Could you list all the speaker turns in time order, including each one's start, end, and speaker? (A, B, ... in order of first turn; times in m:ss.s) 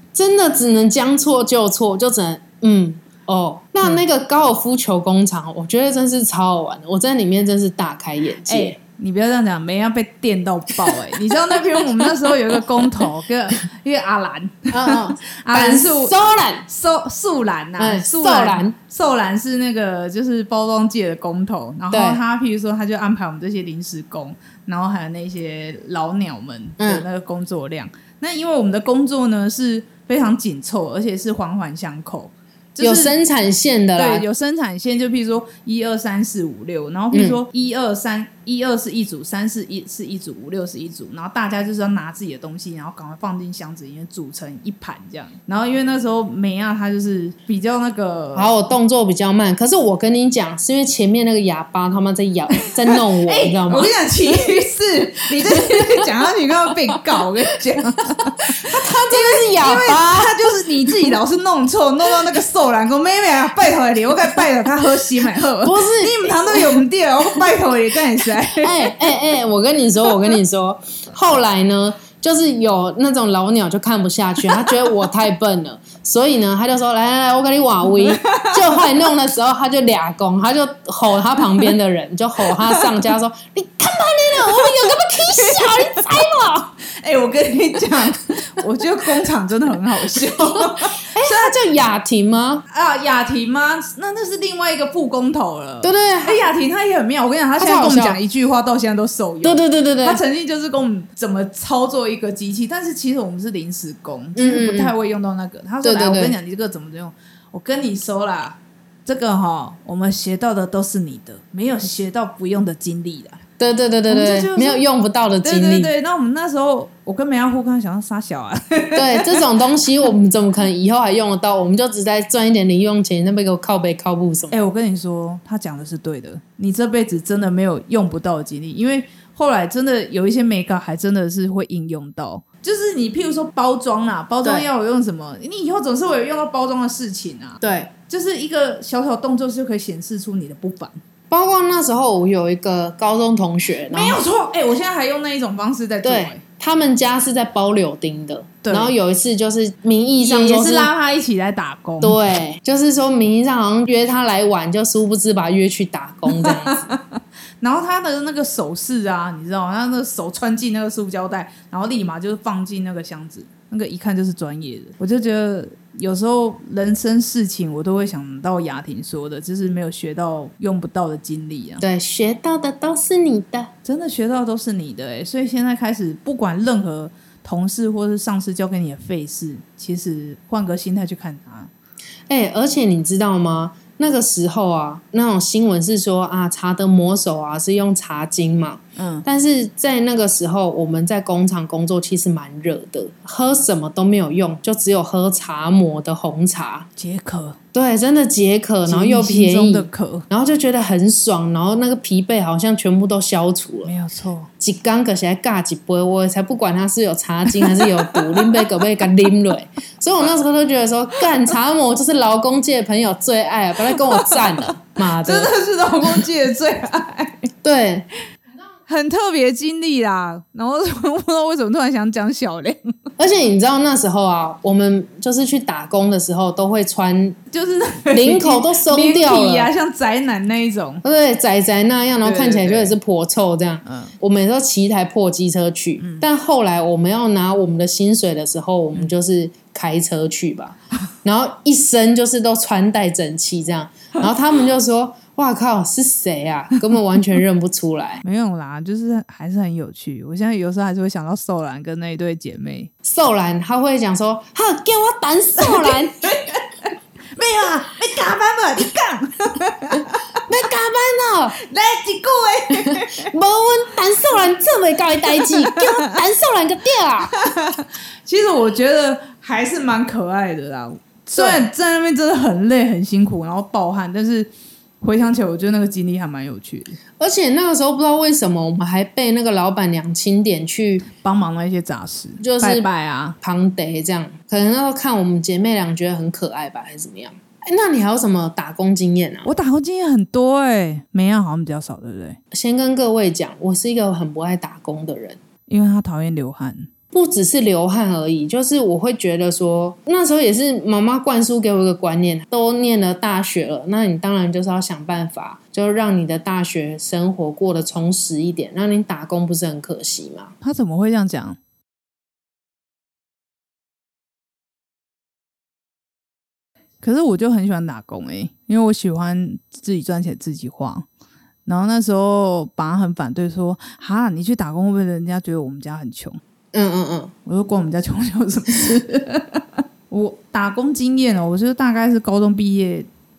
0:00.1-0:08.8 A
0:08.5-0:33.1 B
0:14.7-0:16.6 A
0:17.8-0:18.8 A
0:21.9-0:22.2 A
0:26.8-0:27.0 A
0:32.8-0:34.2 A
0:34.0-0:48.5 B
0:37.1-0:37.4 A
0:48.4-0:53.9 A
0:52.9-1:09.0 B
0:58.5-1:00.3 A
1:05.6-1:06.8 A
1:08.5-1:26.7 A
1:18.0-1:18.8 B
1:22.5-1:22.9 B
1:24.5-1:26.3 B
1:26.8-1:31.6 B
1:30.2-1:32.6 A
1:32.7-1:53.4 B
1:35.8-1:36.4 A
1:37.6-1:38.2 A
1:39.4-1:40.2 A
1:44.4-1:44.9 A
1:45.8-1:46.4 A
1:53.6-1:55.9 A
1:54.1-1:54.8 B
1:55.4-1:59.4 B
1:59.0-2:04.6 A
2:04.5-2:21.0 B
2:17.6-2:17.9 A
2:21.3-2:24.2 A
2:23.9-2:26.4 B
2:26.0-2:30.9 A
2:28.6-2:28.9 B
2:30.2-2:32.2 B
2:32.0-2:36.8 A
2:36.3-2:51.8 B
2:51.8-2:53.7 A
2:53.8-3:01.7 B
3:02.3-3:16.9 A
3:09.0-3:09.2 B
3:17.0-3:17.6 B
3:17.7-3:23.9 A
3:18.9-3:20.3 B
3:23.8-3:24.5 B
3:24.6-3:35.5 A
3:27.7-3:28.8 B
3:33.9-3:37.5 B
3:37.6-3:38.1 A
3:38.9-3:43.0 B
3:43.2-3:47.4 A
3:47.5-3:51.0 B
3:48.1-3:49.7 A
3:51.0-4:08.2 A
3:52.2-3:53.0 B
3:53.8-3:54.1 B
3:56.0-3:56.2 B
4:08.2-4:12.9 B
4:13.0-4:16.4 A
4:15.6-4:20.4 B
4:20.5-4:21.6 A
4:21.6-4:23.3 B
4:22.8-4:27.3 A
4:25.3-4:26.1 B
4:27.3-4:34.5 B
4:31.4-4:31.7 A
4:35.0-4:37.0 B
4:37.2-4:41.0 A
4:41.1-4:43.4 B
4:42.4-4:42.8 A
4:43.4-4:49.5 A
4:49.4-4:52.4 B
4:52.5-4:55.4 A
4:55.7-4:56.9 B
4:57.1-5:10.5 A
5:10.6-5:11.6 B
5:17.0-5:21.1 B
5:21.7-5:26.4 B
5:26.7-5:27.3 A
5:27.5-5:33.1 B